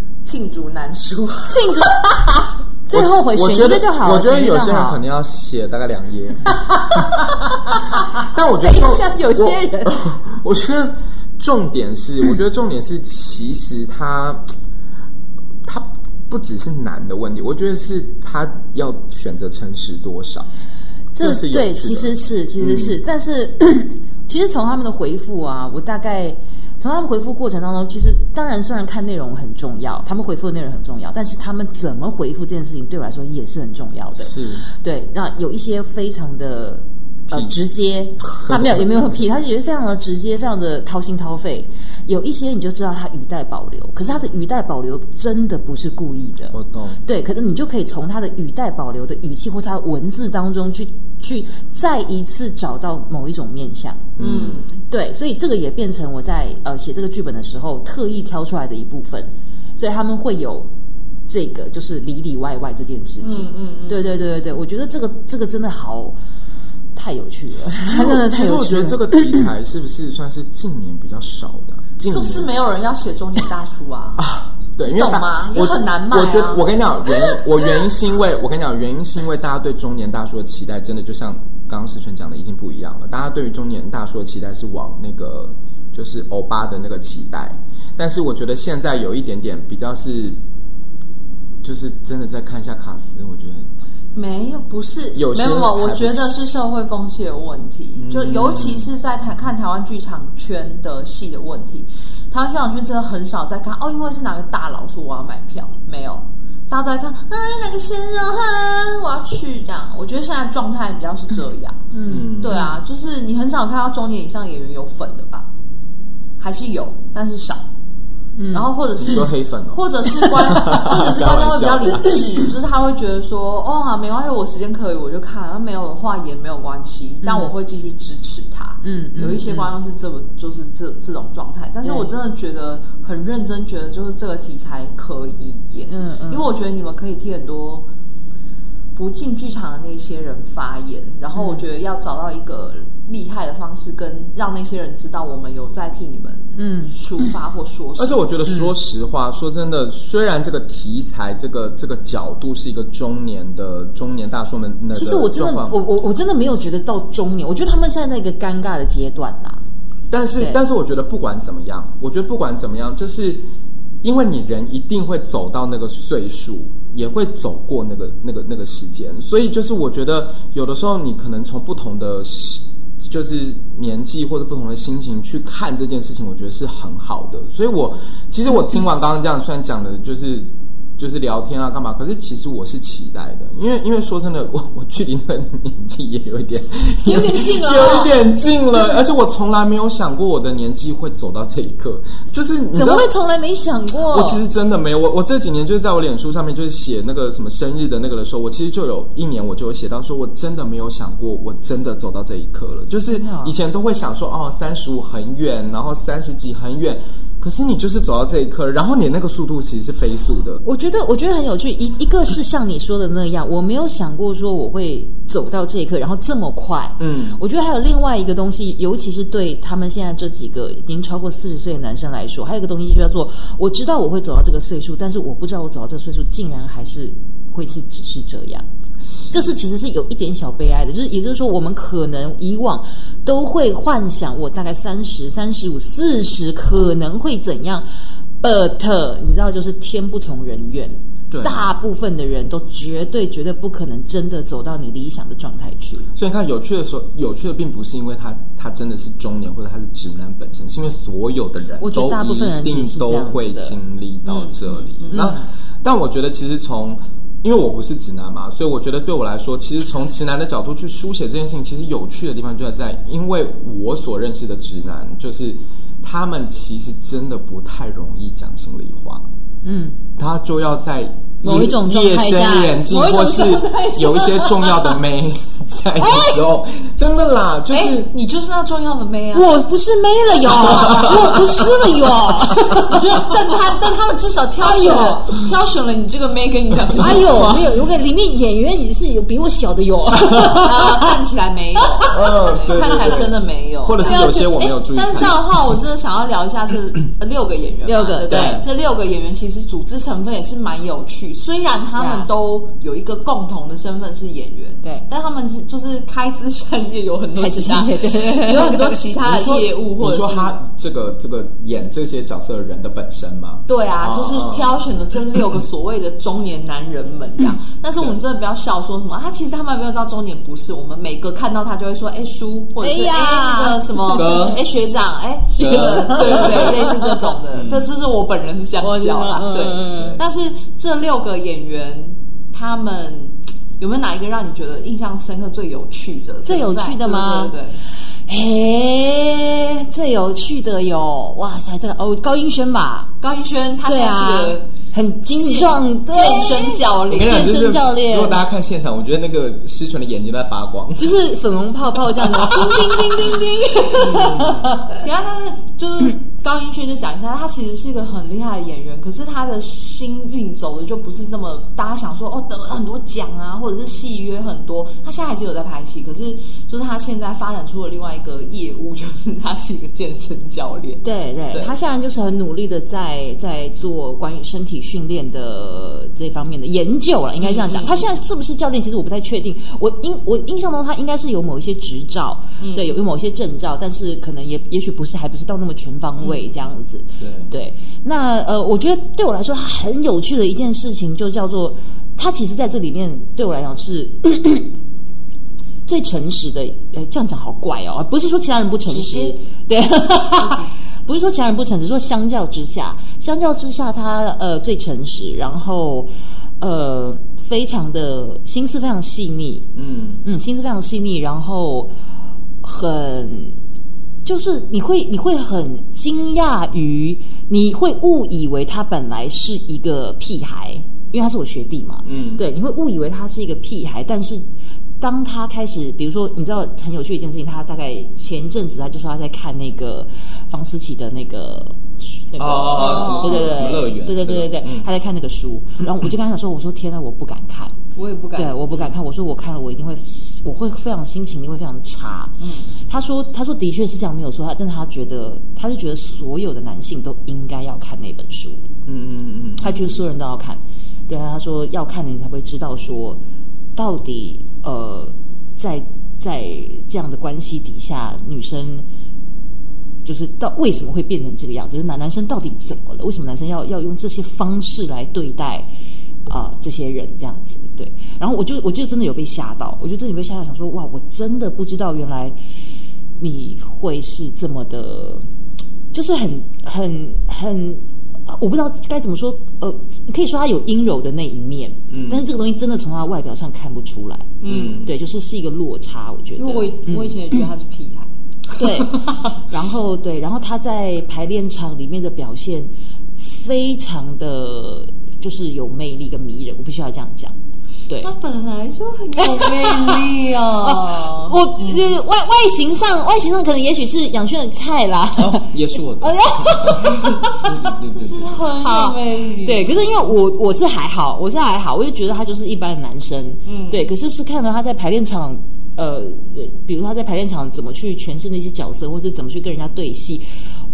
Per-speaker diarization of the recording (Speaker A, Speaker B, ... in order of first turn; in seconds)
Speaker A: 0.2-1.7, 8.6-9.9, 54.2-54.8, 63.2-64.2, 72.1-74.2, 74.9-76.7, 94.2-111.8, 112.4-115.5, 116.4-117.6, 118.5-137.8, 138.9-148.3, 187.1-188.1, 193.0-194.0, 254.3-255.3, 272.9-275.0, 277.7-279.6, 280.5-287.7, 290.6-310.6, 313.7-337.8, 343.2-344.7, 345.4-347.5, 352.4-371.8, 377.4-378.1, 382.6-382.9, 398.9-399.4, 400.4-400.7, 432.7-433.6, 437.9-438.9, 442.4-442.8, 484.4-484.8, 486.4-489.4, 498.0-502.0, 508.4-510.1, 513.5-513.9
Speaker B: 1.5-5.0, 21.1-54.1, 54.9-60.7, 61.3-66.2, 67.0-69.5, 111.9-112.8, 118.4-118.7, 127.2-127.5, 128.8-129.7, 131.8-132.1, 135.9-136.5, 141.3-141.6, 146.6-147.0, 148.5-148.7, 154.9-159.6, 187.7-188.1, 192.8-193.2, 193.8-194.4, 203.1-203.6, 210.6-228.7, 229.3-237.8, 238.4-246.1, 251.8-253.8, 255.1-255.4, 269.6-270.0, 271.4-272.9, 276.0-276.4, 279.3-283.3, 284.6-285.2, 287.0-291.1, 292.0-293.3, 297.9-298.6, 301.9-302.3, 307.4-309.1, 322.8-324.6, 325.6-327.2, 328.8-330.2, 336.4-337.5, 338.3-343.1, 343.9-348.4, 351.0-355.0, 371.0-394.7, 395.9-409.7, 410.2-411.9, 412.6-413.6, 414.2-424.5, 425.0-437.8, 438.4-442.4, 442.9-448.6, 449.6-453.2, 453.8-458.9, 460.1-465.7, 466.3-472.4, 473.2-475.3, 475.9-487.4, 488.5-497.4, 499.2-520.2
Speaker C: 2.9-7.0, 8.0-14.4, 15.6-20.5, 21.2-23.0, 34.2-34.7, 37.3-37.6, 38.3-39.2, 46.5-47.0, 54.2-54.7, 67.8-72.5, 74.2-90.4, 91.6-93.7, 95.1-96.2, 98.0-98.9, 112.1-112.7, 119.0-122.5, 148.0-155.8, 160.1-163.4, 164.0-193.1, 194.0-210.6, 217.0-217.4, 229.0-229.5, 241.3-241.7, 246.2-269.3, 270.2-278.1, 280.6-281.4, 290.2-290.6, 292.1-295.4, 298.2-298.6, 309.2-314.7, 324.1-324.6, 325.6-326.8, 327.5-327.9, 329.9-330.2, 347.1-351.2, 352.5-352.9, 354.1-354.7, 387.2-387.5, 409.8-410.2, 422.1-422.4, 432.4-434.9, 448.9-450.0, 481.9-482.3, 484.5-484.9, 505.1-508.5